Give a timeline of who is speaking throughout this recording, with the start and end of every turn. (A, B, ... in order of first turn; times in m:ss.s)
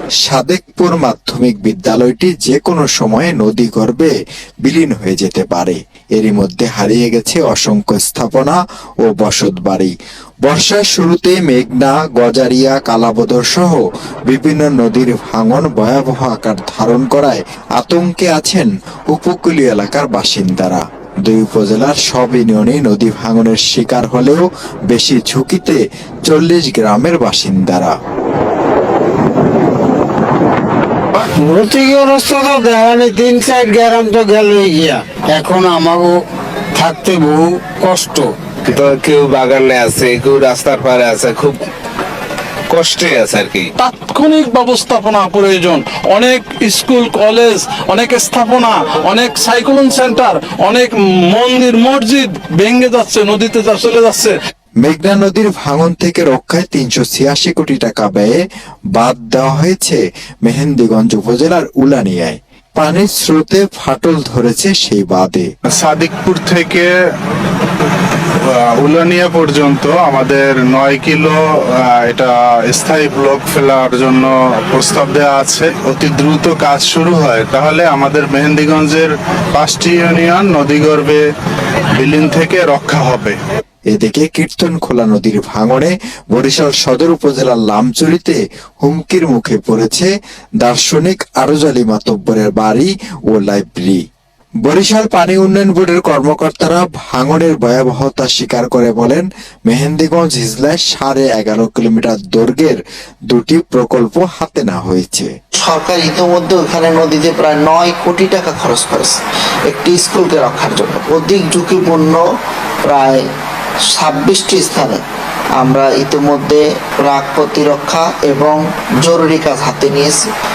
0:00.2-0:27.9 A
0:31.2-0:36.2 B
0:36.7-0:38.3 B
0:38.7-0:41.6 C
0:42.7-0:43.7 C
0:43.8-0:54.4 D
0:54.8-0:58.4 A
0:58.9-1:05.5 A
1:05.7-1:06.9 E
1:08.5-1:21.2 E
1:22.0-1:23.4 E
1:23.9-1:34.0 A
1:34.6-1:45.3 A
1:45.6-1:49.2 F
1:49.7-1:52.2 F
1:52.8-1:53.2 F
1:53.9-1:55.0 F
1:55.6-2:00.3 F